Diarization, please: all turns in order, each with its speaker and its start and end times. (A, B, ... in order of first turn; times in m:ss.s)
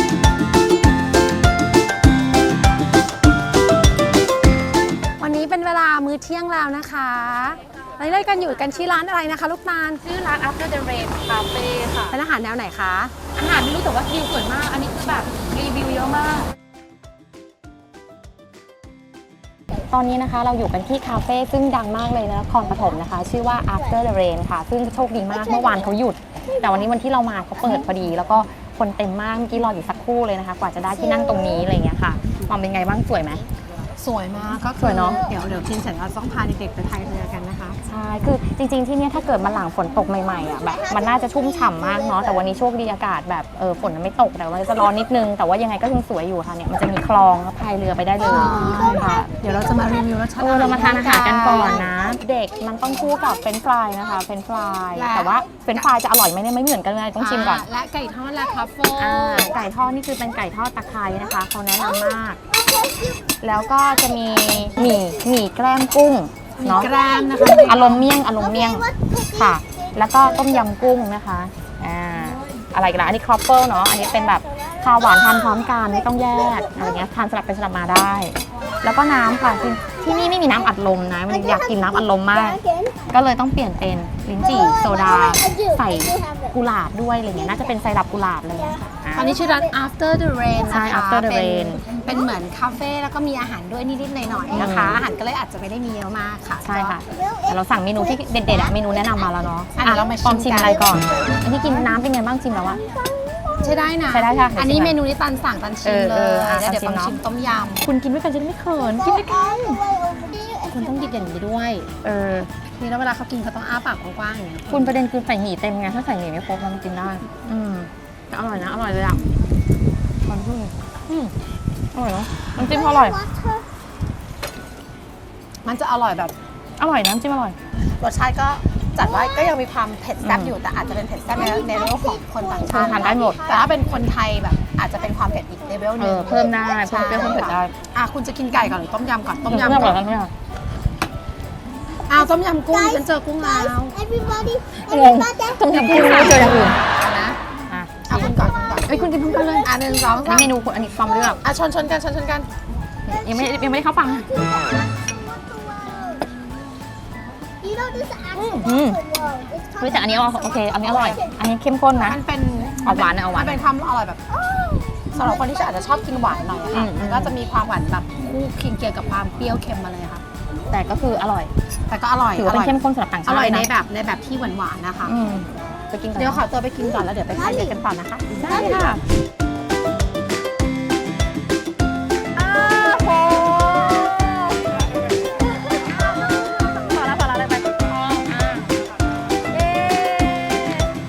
0:05.2-0:10.0 A
0:10.0-0:12.2 B
0:12.1-0:13.1 A
0:13.3-0:16.5 B
0:19.9-0:33.4 B
0:31.1-0:31.5 C
0:34.0-0:37.8 A
0:34.8-0:35.3 B
0:37.8-0:49.3 B
0:40.7-0:42.2 C
0:48.2-0:51.9 A
0:50.4-0:57.6 B
0:54.9-0:55.9 A
0:57.2-0:59.5 A
0:59.0-1:02.4 B
1:01.9-1:03.4 C
1:03.4-1:06.9 B
1:06.6-1:08.1 A
1:06.8-1:07.5 C
1:07.5-1:29.4 B
1:08.4-1:09.6 C
1:22.4-1:23.1 C
1:24.4-1:26.6 C
1:29.1-1:37.0 A
1:29.2-1:29.7 C
1:30.6-1:31.8 B
1:34.5-1:35.0 B
1:36.6-1:42.8 B
1:37.1-1:39.3 C
1:39.7-1:40.9 A
1:40.9-1:41.4 C
1:42.7-1:44.0 C
1:43.6-1:47.8 A
1:44.1-1:45.0 B
1:45.8-1:47.2 B
1:47.8-1:49.8 B
1:49.0-1:51.1 C
1:50.7-1:51.9 A
1:52.0-1:52.5 B
1:52.7-1:54.9 A
1:54.7-1:59.3 B
2:00.2-2:00.7 B
2:01.9-2:03.2 B
2:02.6-2:03.7 C
2:05.6-2:06.3 A
2:06.8-2:07.6 B
2:08.0-2:20.0 A
2:10.2-2:10.5 B
2:11.4-2:13.7 C
2:12.6-2:13.4 B
2:16.0-2:17.7 B
2:19.5-2:20.3 B
2:22.1-2:24.0 A
2:22.7-2:26.5 C
2:24.9-2:26.8 B
2:25.7-2:27.4 A
2:27.7-2:29.7 B
2:28.0-2:30.5 A
2:29.1-2:29.8 C
2:30.2-2:31.4 B
2:31.4-2:32.5 A
2:33.0-2:34.3 B
2:33.1-2:36.4 C
2:37.6-2:41.4 C
2:38.3-2:38.6 A
2:38.6-2:39.0 B
2:39.8-2:42.2 B
2:42.0-2:44.2 A
2:42.8-2:43.6 B
2:44.3-2:45.8 C
2:45.1-2:50.2 A
2:46.7-2:47.3 B
2:50.7-2:51.5 B
2:51.9-2:55.2 A
2:52.4-2:53.7 B
2:55.0-2:56.4 B
2:56.2-2:58.7 A
2:57.5-2:57.8 C
2:58.4-2:59.0 B
3:02.4-3:04.5 B
3:05.7-3:06.6 A
3:06.2-3:08.7 B
3:09.5-3:10.8 B